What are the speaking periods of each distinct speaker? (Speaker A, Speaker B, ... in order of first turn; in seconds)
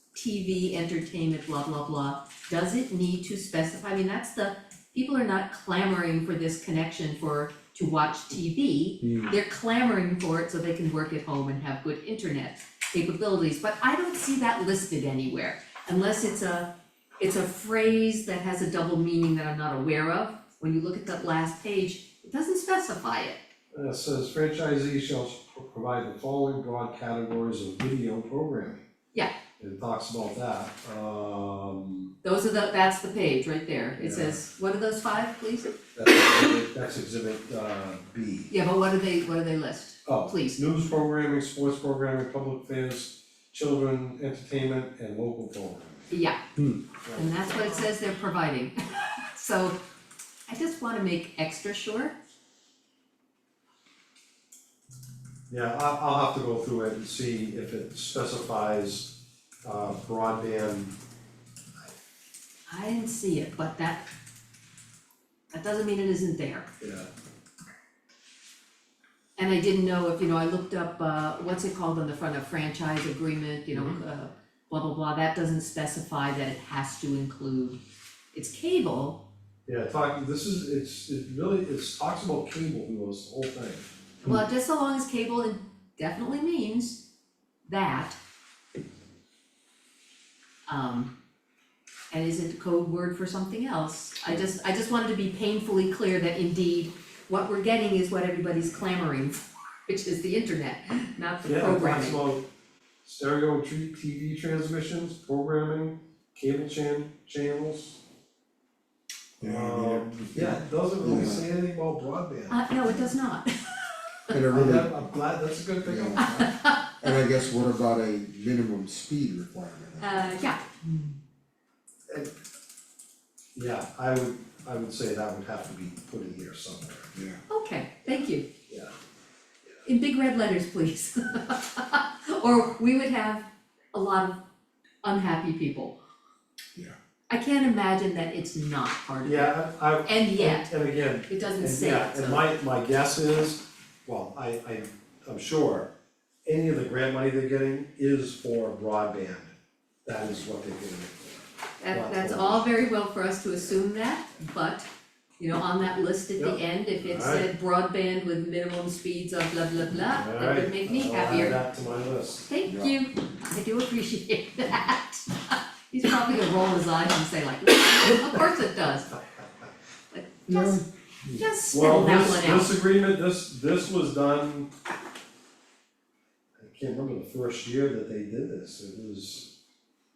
Speaker A: 0.1-23.4, 32.2-35.7, 38.5-40.6, 46.1-46.4, 47.1-49.8, 50.5-52.1, 62.7-64.1, 65.5-66.7, 69.4-77.8, 78.3-79.2, 84.2-87.0, 87.7-88.2, 90.7-91.1, 92.1-102.3, 112.5-114.3, 116.2-117.2, 120.0-120.6, 127.5-128.5, 129.8-134.4, 135.0-136.0, 137.3-139.5, 140.1-140.7, 141.3-142.4, 151.8-154.9, 155.4-161.6, 162.5-169.2, 170.1-170.8, 171.4-172.8
Speaker B: 23.7-28.9, 29.6-32.1, 34.0-34.4, 36.0-38.5, 40.0-46.1, 47.0-47.9, 55.5-59.1, 59.6-61.0, 66.8-67.1, 73.7-74.0, 79.7-83.9, 101.5-102.5, 103.0-108.0, 109.4-112.6, 114.5-116.5, 123.5-127.1, 128.7-128.9, 139.2-145.9, 146.4-151.3, 151.9-152.6, 156.4-157.5, 160.1-162.5, 171.7-174.7, 176.6-179.5
Speaker C: 109.4-111.5, 114.3-115.1, 115.8-116.3, 117.0-120.5, 127.1-127.4, 162.7-162.9, 170.5-171.5